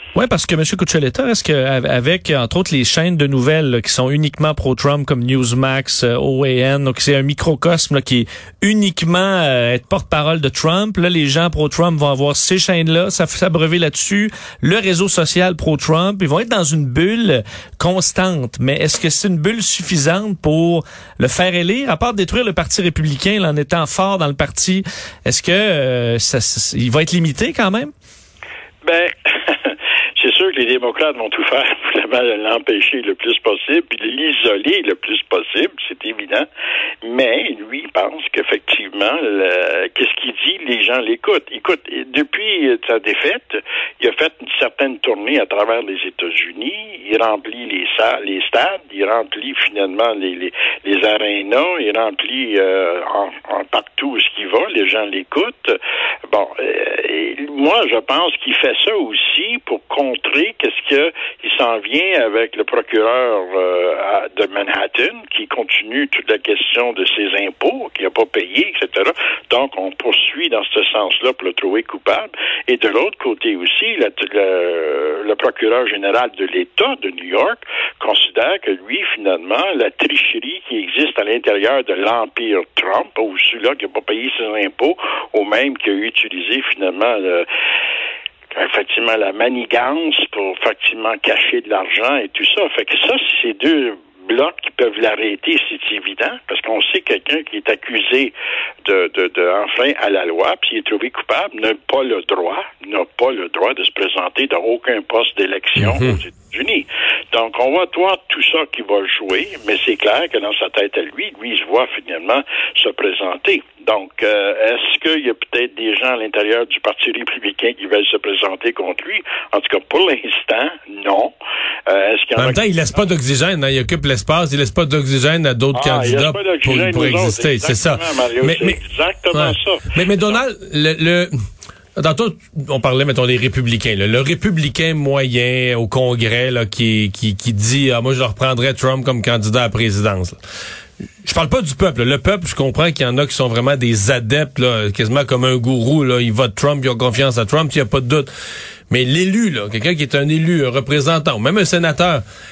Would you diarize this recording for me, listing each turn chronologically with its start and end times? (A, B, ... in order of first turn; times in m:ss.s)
0:00.1-0:27.9 A
0:28.8-0:36.5 B
0:37.0-0:55.8 B
0:56.3-1:27.4 B
1:28.5-1:38.3 B
1:38.8-2:01.3 B
1:45.8-1:46.1 C
2:01.9-2:02.6 B
2:02.4-2:08.8 C
2:05.7-2:10.4 B
2:09.3-2:11.3 C
2:12.0-2:20.4 C
2:21.2-2:28.3 C
2:28.9-2:32.2 C